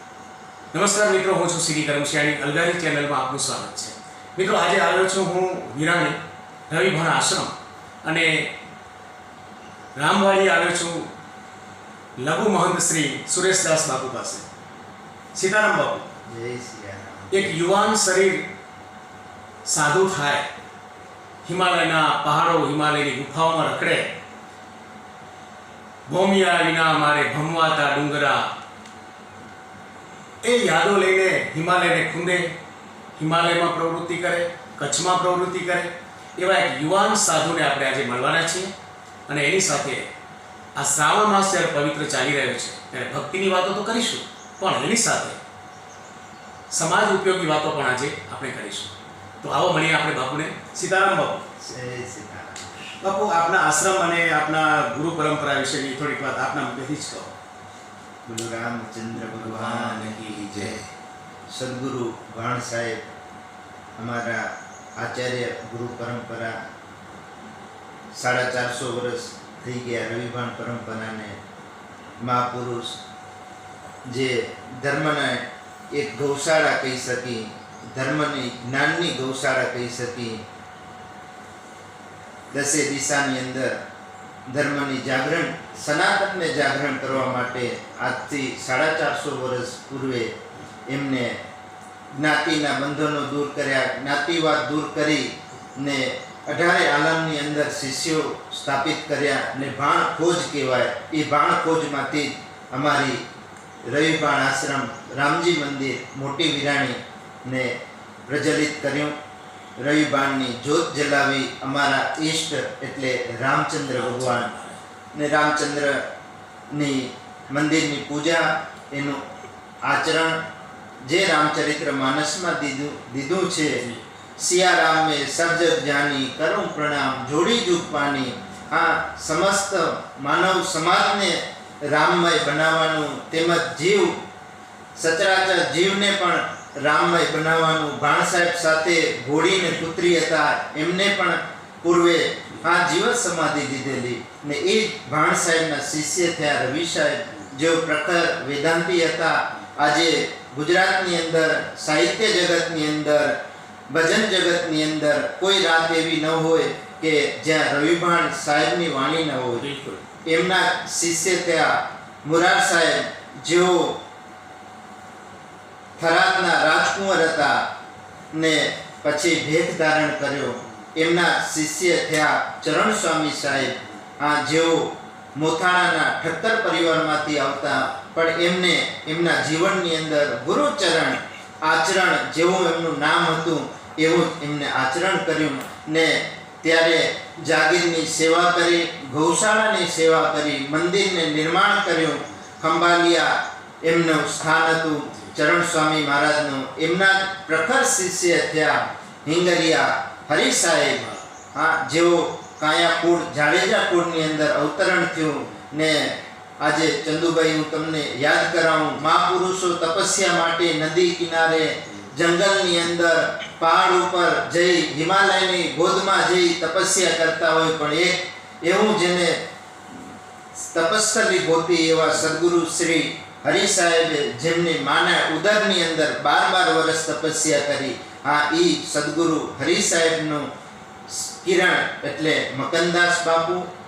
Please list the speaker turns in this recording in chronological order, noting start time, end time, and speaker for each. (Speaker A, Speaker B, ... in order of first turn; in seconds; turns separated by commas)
Speaker A: 0.7-6.2, Speaker A: 6.7-7.5, Speaker A: 8.0-8.5, Speaker A: 9.9-11.1, Speaker A: 12.2-14.4, Speaker A: 15.3-16.1, Speaker B: 16.2-17.5, Speaker A: 17.3-18.5, Speaker A: 19.6-20.5, Speaker A: 21.4-24.1, Speaker A: 26.1-28.5, Speaker A: 30.4-32.5, Speaker A: 33.1-38.7, Speaker A: 39.3-40.1, Speaker A: 40.8-45.4, Speaker A: 46.7-51.5, Speaker B: 51.6-53.0, Speaker A: 53.0-57.3, Speaker B: 58.2-60.8, Speaker A: 59.3-60.8, Speaker B: 61.5-63.0, Speaker B: 64.0-66.6, Speaker B: 68.1-71.4, Speaker B: 72.2-73.0, Speaker B: 74.0-80.4, Speaker B: 82.5-83.8, Speaker B: 84.5-90.3, Speaker B: 90.9-91.4, Speaker B: 92.1-103.2, Speaker B: 103.8-107.8, Speaker B: 108.3-109.1, Speaker B: 109.8-114.5, Speaker A: 114.0-114.8, Speaker B: 115.1-116.0, Speaker B: 116.7-119.2, Speaker B: 119.8-120.4, Speaker B: 121.0-123.8, Speaker A: 123.7-124.0, Speaker B: 124.4-134.2, Speaker B: 134.9-153.4, Speaker B: 153.9-159.6, Speaker A: 159.6-160.0, Speaker B: 160.2-164.0, Speaker B: 166.0-167.7, Speaker B: 168.3-201.0, Speaker A: 201.0-201.2, Speaker B: 201.5-230.5, Speaker B: 231.1-233.7